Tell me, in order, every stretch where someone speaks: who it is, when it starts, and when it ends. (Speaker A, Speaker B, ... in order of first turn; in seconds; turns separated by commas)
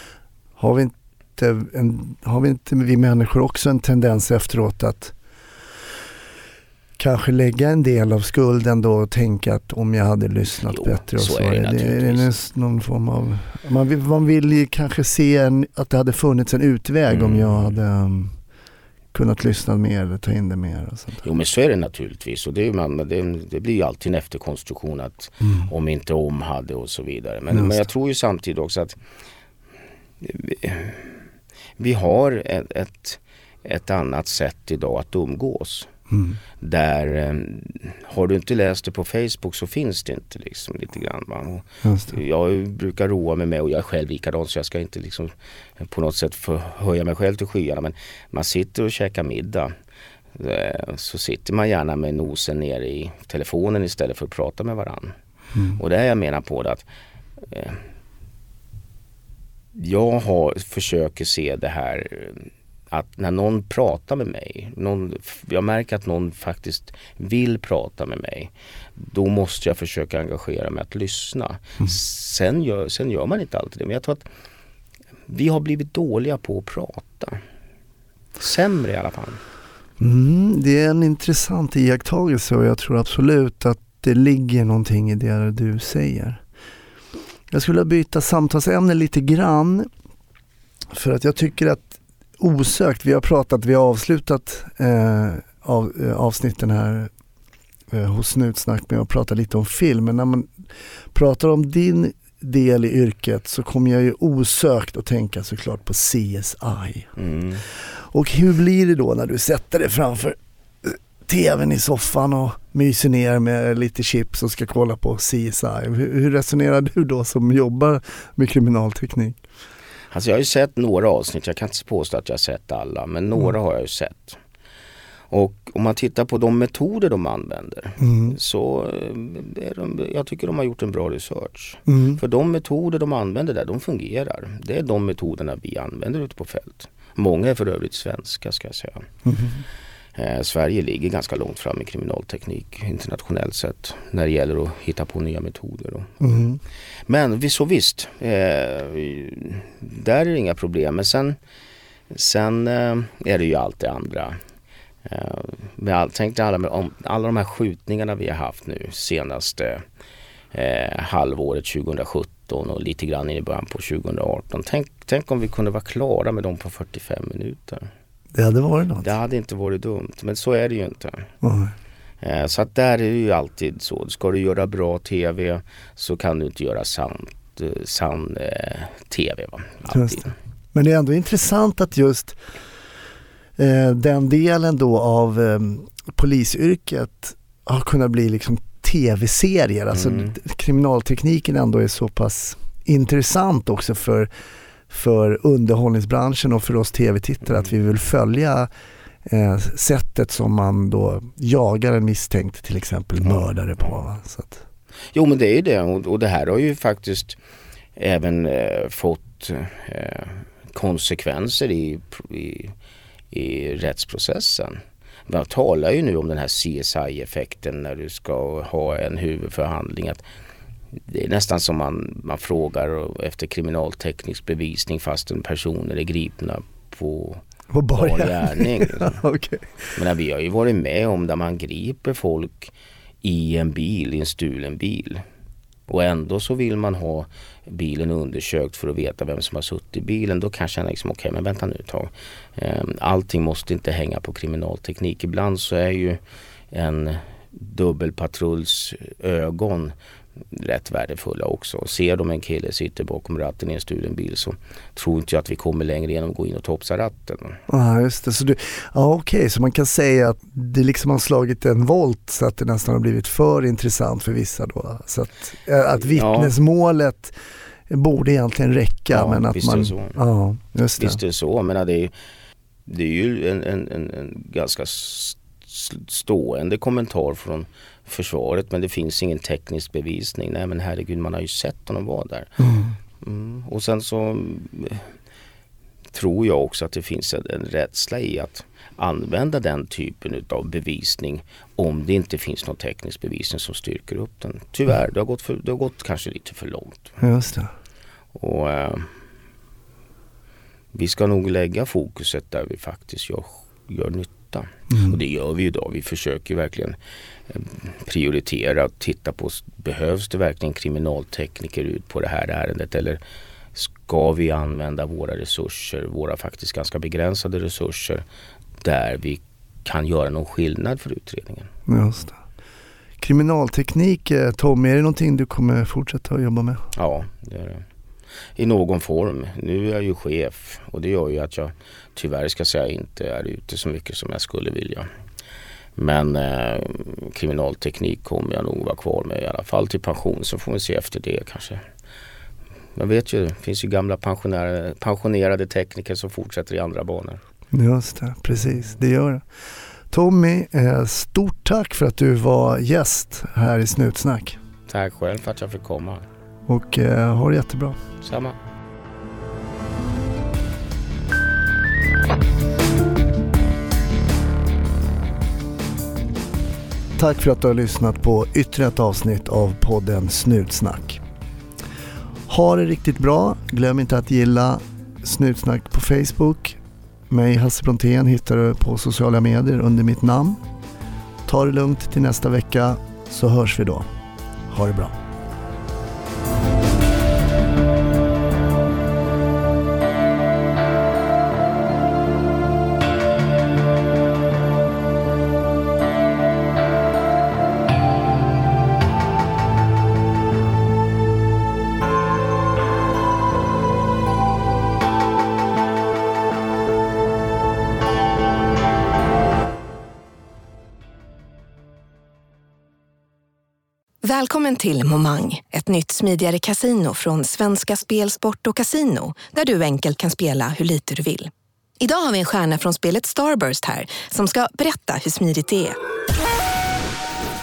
Speaker A: 0.6-5.1, Speaker A: 7.0-18.4, Speaker B: 10.7-12.3, Speaker B: 17.1-17.8, Speaker A: 19.1-21.2, Speaker B: 21.2-29.0, Speaker A: 25.4-25.7, Speaker A: 27.5-27.8, Speaker B: 30.2-31.2, Speaker B: 31.8-35.9, Speaker A: 36.1-36.4, Speaker B: 36.6-49.7, Speaker A: 41.8-42.2, Speaker B: 50.3-55.1, Speaker A: 55.5-55.8, Speaker B: 55.8-56.9, Speaker B: 57.4-57.8, Speaker B: 59.7-74.2, Speaker B: 75.3-77.4, Speaker B: 78.4-79.4, Speaker A: 80.0-86.4, Speaker A: 87.5-89.9, Speaker A: 90.9-97.1, Speaker A: 97.9-100.5, Speaker A: 101.1-107.1, Speaker B: 107.2-107.6, Speaker A: 107.7-119.4, Speaker B: 120.1-124.4, Speaker B: 125.3-139.1, Speaker A: 128.0-128.4, Speaker A: 131.9-132.2, Speaker A: 139.2-139.6, Speaker B: 140.1-146.4, Speaker A: 146.2-146.6, Speaker B: 147.1-151.4, Speaker B: 152.1-154.4, Speaker B: 155.0-159.8, Speaker B: 160.5-167.9, Speaker A: 168.3-169.1, Speaker B: 169.0-171.3, Speaker A: 171.4-171.7, Speaker B: 172.2-180.3, Speaker A: 179.9-180.2, Speaker A: 180.7-182.4, Speaker A: 183.6-194.3, Speaker B: 189.9-190.3, Speaker A: 194.9-198.7, Speaker A: 199.2-204.6, Speaker B: 205.1-207.4, Speaker B: 207.9-212.7, Speaker B: 213.3-220.2, Speaker B: 220.9-227.4, Speaker A: 227.7-229.9, Speaker B: 227.9-229.2, Speaker B: 229.9-235.2, Speaker B: 235.9-246.2, Speaker B: 246.7-249.9, Speaker B: 250.5-257.6, Speaker A: 257.7-267.3, Speaker B: 266.1-266.5, Speaker A: 267.9-271.2, Speaker B: 269.1-270.2, Speaker B: 271.0-272.1, Speaker B: 272.9-282.6, Speaker A: 282.6-282.9, Speaker B: 283.2-285.1, Speaker B: 286.1-297.2, Speaker A: 297.2-297.7, Speaker B: 298.3-299.1, Speaker B: 300.9-306.9, Speaker A: 304.9-305.2, Speaker B: 307.5-313.2, Speaker B: 313.7-318.2, Speaker B: 318.8-321.7, Speaker A: 321.9-322.4, Speaker A: 323.2-326.8, Speaker B: 326.9-327.8, Speaker B: 328.6-335.1, Speaker B: 335.9-341.8, Speaker B: 342.9-347.4, Speaker A: 347.7-349.4, Speaker A: 350.1-354.6, Speaker B: 354.9-356.2, Speaker A: 356.7-358.0, Speaker B: 358.2-358.6, Speaker A: 367.2-371.2, Speaker A: 372.5-376.8, Speaker A: 377.3-380.6, Speaker A: 381.4-384.1, Speaker A: 384.7-385.1, Speaker C: 414.2-426.0